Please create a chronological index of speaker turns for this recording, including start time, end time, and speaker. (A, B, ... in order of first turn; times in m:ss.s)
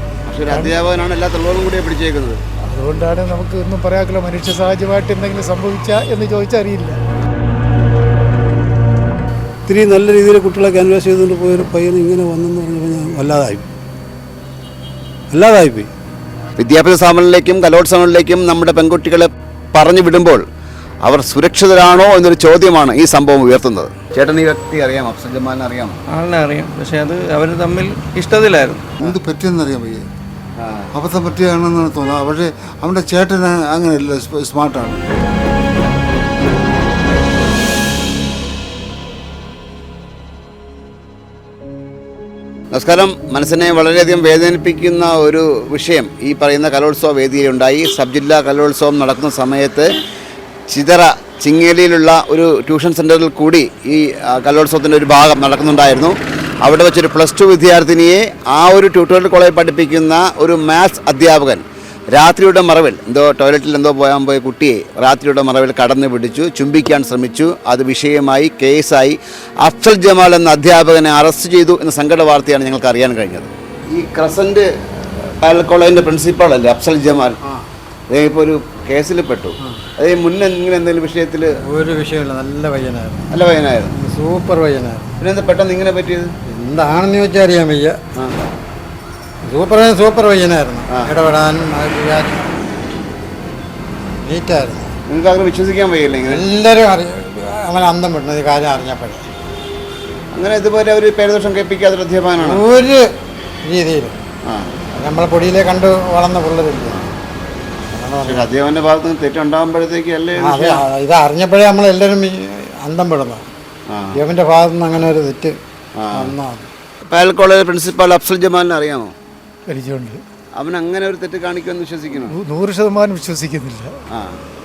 0:00.3-0:02.4 A
0:00.5-0:00.8 B
0:02.7-0:07.0 B
0:09.7-0:13.6 C
0:15.3-0:15.9 C
0:16.6-0:20.4 A
0:21.0-0:26.0 A
0:26.1-0:28.8 D
0:29.0-0:30.0 E
0:30.6-0:30.9 A
0:30.9-0:35.0 E
0:42.7-0:49.9 A
0:50.7-1:14.7 A
1:15.4-1:17.4 A
1:18.1-1:21.5 A
1:21.6-1:23.3 F
1:23.3-1:24.0 A
1:24.0-1:25.2 F
1:25.2-1:26.3 A
1:26.5-1:28.0 F
1:28.2-1:28.4 A
1:29.4-1:32.6 F
1:30.9-1:31.2 A
1:34.2-1:34.9 F
1:35.1-1:36.5 A
1:36.3-1:39.3 F
1:40.3-1:42.7 A
1:42.4-1:43.1 F
1:43.6-1:44.2 F
1:44.5-1:44.7 A
1:45.0-1:47.0 F
1:47.9-1:48.5 F
1:48.2-1:50.9 A
1:50.4-1:53.5 F
1:53.9-1:54.2 A
1:54.1-1:55.6 F
1:56.0-1:56.4 A
1:56.1-1:56.7 F
1:57.1-1:59.1 A
1:59.7-2:00.2 B
2:00.6-2:02.4 A
2:02.3-2:03.9 B
2:04.1-2:04.4 A